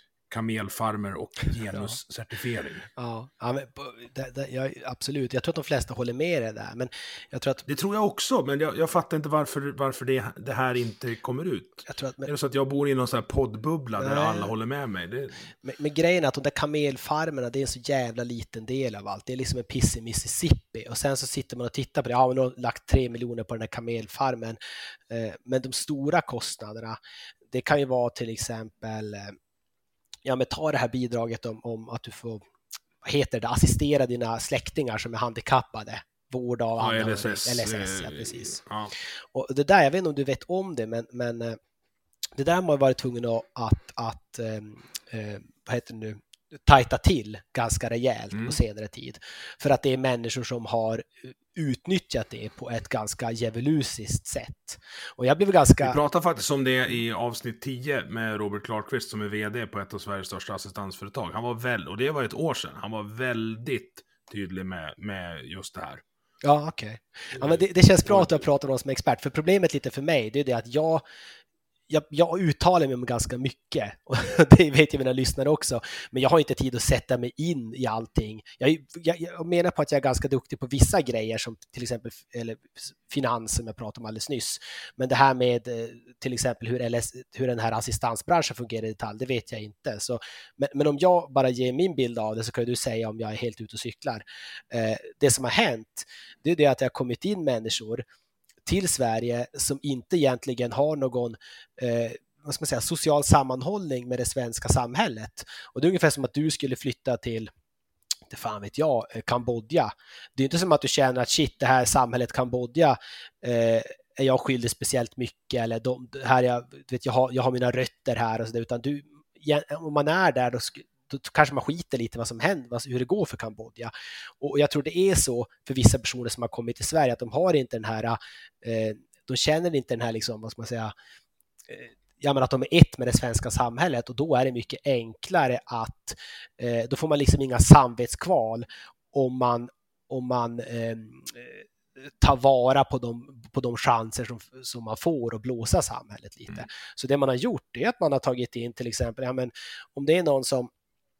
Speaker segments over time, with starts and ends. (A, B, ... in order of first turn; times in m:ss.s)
0:00.3-0:02.9 A
0:03.0-0:07.6 B
0:07.6-0:15.4 A
0:11.9-0:12.3 B
0:14.0-0:14.5 B
0:15.6-0:24.6 B
0:25.1-0:27.0 B
0:27.5-0:29.4 B
0:30.2-0:32.4 B
0:33.0-0:38.6 B
0:36.8-0:38.9 A
0:39.3-0:41.6 B
0:42.4-0:56.0 B
0:55.8-1:06.0 A
1:06.4-1:11.0 B
1:07.4-1:08.4 A
1:11.9-1:38.0 B
1:38.6-1:47.5 B
1:48.3-2:10.9 B
2:11.7-2:30.7 B